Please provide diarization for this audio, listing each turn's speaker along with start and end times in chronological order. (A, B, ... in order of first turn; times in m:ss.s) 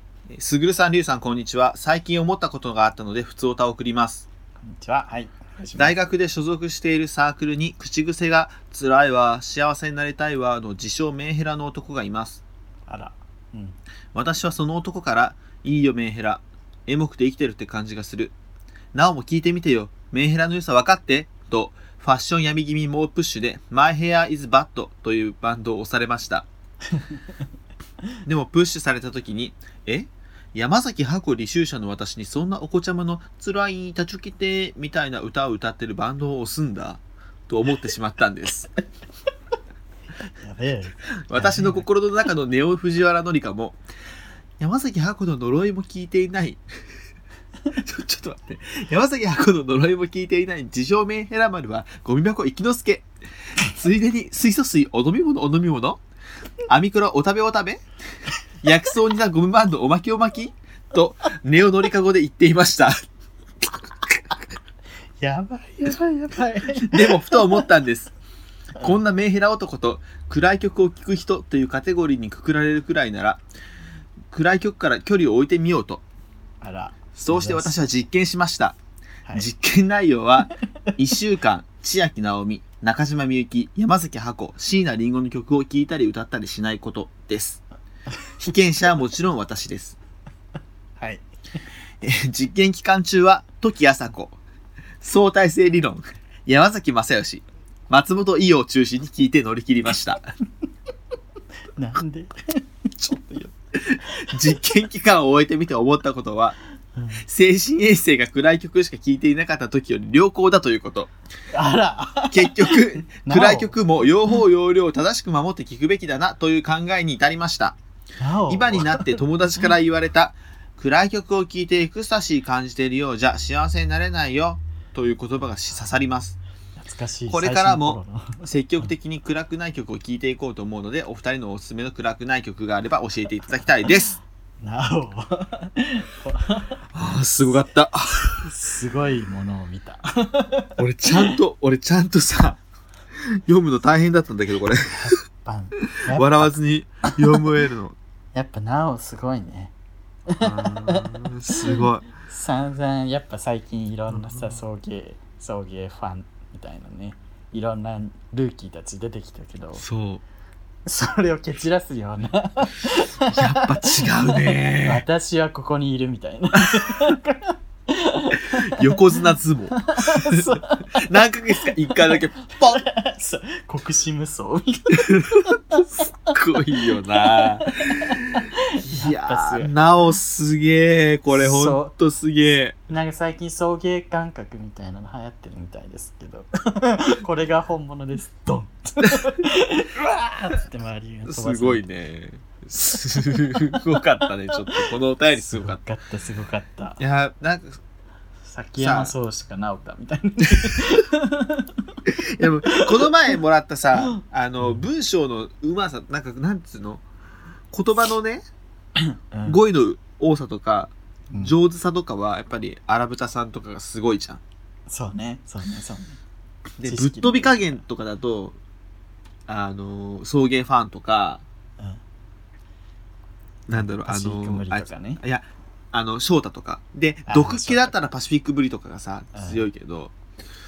0:00.3-0:04.2 A
0:04.6-0:06.0 B
0:05.8-0:12.4 A
0:12.9-0:13.8 B
0:14.1-0:18.4 A
0:18.9-0:26.5 A
0:28.3-0:38.7 A
0:40.4-0:41.9 B
0:41.2-0:43.8 A
0:44.6-0:46.6 A
0:47.7-0:53.1 A
0:53.6-0:56.0 A
0:56.7-0:57.8 A
0:58.6-1:03.0 A
1:03.6-1:04.2 A
1:05.2-1:07.7 B
1:06.8-1:08.2 A
1:08.8-1:13.4 A
1:14.3-1:16.0 A
1:16.6-1:17.8 B
1:17.2-1:18.8 A
1:19.3-1:27.6 A
1:28.4-1:30.0 A
1:31.0-1:31.3 B
1:32.0-1:34.4 A
1:35.0-1:40.3 A
1:41.8-1:42.3 B
1:42.9-1:43.5 B
1:43.7-1:46.6 A
1:47.0-1:47.2 B
1:47.2-1:51.1 A
1:51.5-1:53.8 B
1:52.3-1:57.8 A
1:58.2-1:59.2 B
1:58.5-2:06.4 A
2:06.8-2:08.9 B
2:07.3-2:14.2 A
2:14.6-2:17.2 B
2:16.9-2:18.5 A
2:18.4-2:21.4 B
2:20.8-2:22.6 A
2:23.2-2:25.2 A
2:24.9-2:27.4 B
2:26.1-2:28.0 A
2:28.3-2:29.7 B
2:30.3-2:31.1 B
2:30.4-2:32.1 A
2:31.6-2:39.8 B
2:34.1-2:34.6 A
2:39.8-2:40.2 A
2:40.9-2:49.0 B
2:43.3-2:45.0 A
2:46.6-2:47.2 A
2:48.5-2:52.8 A
2:49.8-2:51.0 B
2:51.9-2:56.2 B
2:55.0-2:55.6 A
2:56.3-3:02.8 A
2:56.8-2:59.7 B
3:01.3-3:02.0 B
3:02.9-3:11.8 B
3:11.2-3:15.8 A
3:15.3-3:17.0 B
3:17.0-3:17.8 A
3:18.4-3:22.0 B
3:18.8-3:19.1 A
3:22.1-3:27.0 A
3:24.6-3:24.9 B
3:27.7-3:28.4 A
3:29.3-3:29.6 B
3:29.4-3:34.4 A
3:31.3-3:31.6 B
3:34.9-3:36.2 B
3:36.8-3:38.6 A
3:36.8-3:37.8 B
3:39.5-3:41.4 A
3:43.7-3:50.2 A
3:43.7-3:45.2 B
3:47.3-3:47.9 B
3:49.3-3:49.6 B